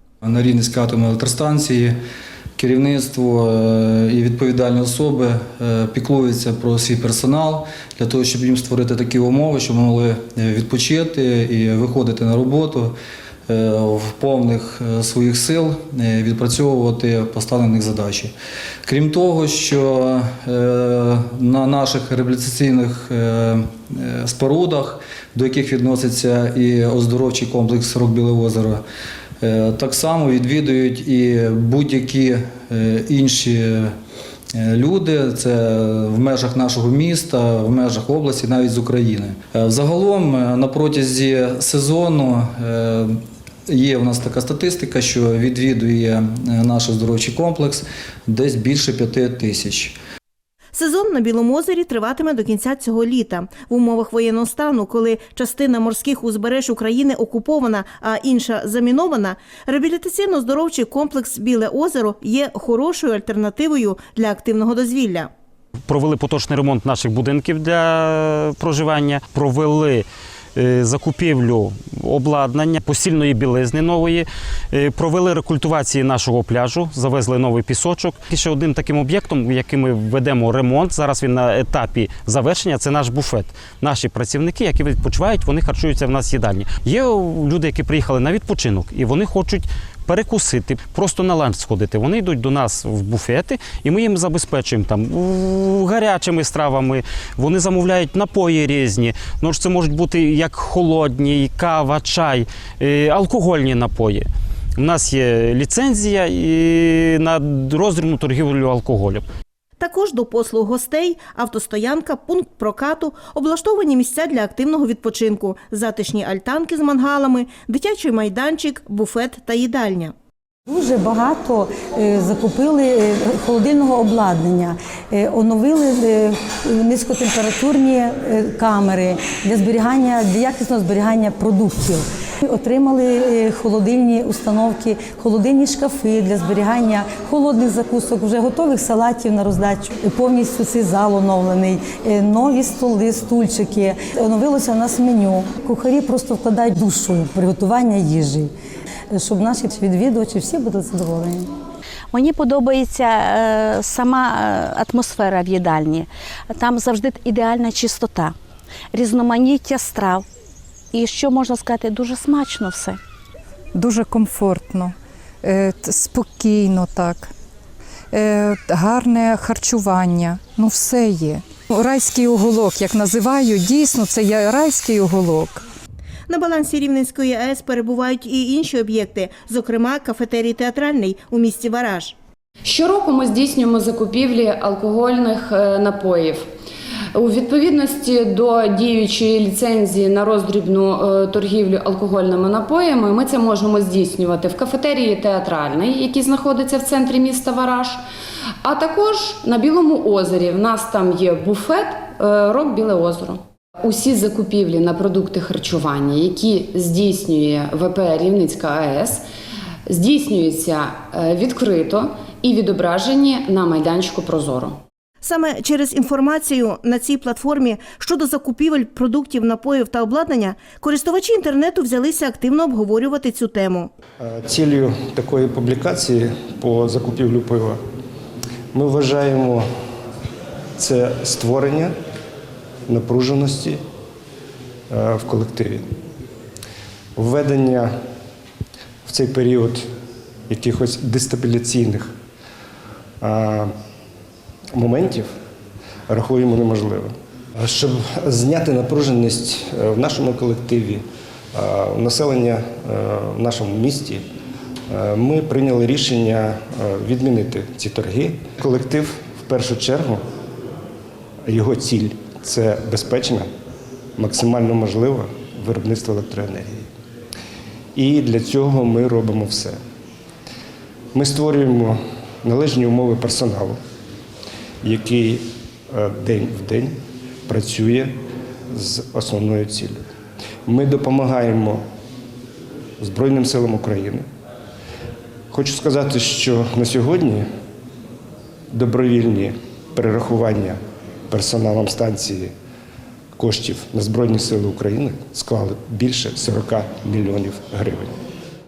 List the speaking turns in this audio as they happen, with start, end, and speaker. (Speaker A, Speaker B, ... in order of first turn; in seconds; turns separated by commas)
Speaker A: 0.2-1.9, Speaker A: 2.6-12.9, Speaker A: 13.5-18.3, Speaker A: 18.9-28.8, Speaker A: 29.4-33.9, Speaker A: 34.5-43.1, Speaker A: 43.7-49.9, Speaker B: 50.7-65.3, Speaker C: 65.9-104.3, Speaker C: 104.8-109.2, Speaker B: 109.8-120.1, Speaker D: 120.7-148.5, Speaker D: 149.1-151.5, Speaker E: 152.1-158.3, Speaker E: 158.9-160.2, Speaker E: 160.9-163.0, Speaker F: 163.7-167.3, Speaker F: 168.1-175.6, Speaker B: 176.3-182.2, Speaker G: 182.6-186.4, Speaker G: 187.1-198.0, Speaker G: 198.6-209.2, Speaker G: 209.9-214.8, Speaker B: 215.2-223.9, Speaker H: 224.2-227.8, Speaker H: 228.7-229.7, Speaker H: 230.8-231.9, Speaker H: 232.9-233.8, Speaker H: 234.9-235.9, Speaker H: 237.2-237.9, Speaker H: 239.1-239.9, Speaker H: 240.5-242.1, Speaker H: 243.2-243.7, Speaker H: 244.7-245.3, Speaker H: 246.1-254.2, Speaker H: 254.9-260.2, Speaker H: 261.4-263.5, Speaker H: 264.2-266.9, Speaker H: 267.9-269.8, Speaker H: 271.1-273.8, Speaker H: 274.8-276.9, Speaker H: 277.5-278.2, Speaker H: 278.7-280.0, Speaker H: 280.6-281.8, Speaker H: 283.0-284.2, Speaker H: 285.5-287.5, Speaker H: 288.7-290.8, Speaker H: 291.3-292.5, Speaker H: 293.4-298.2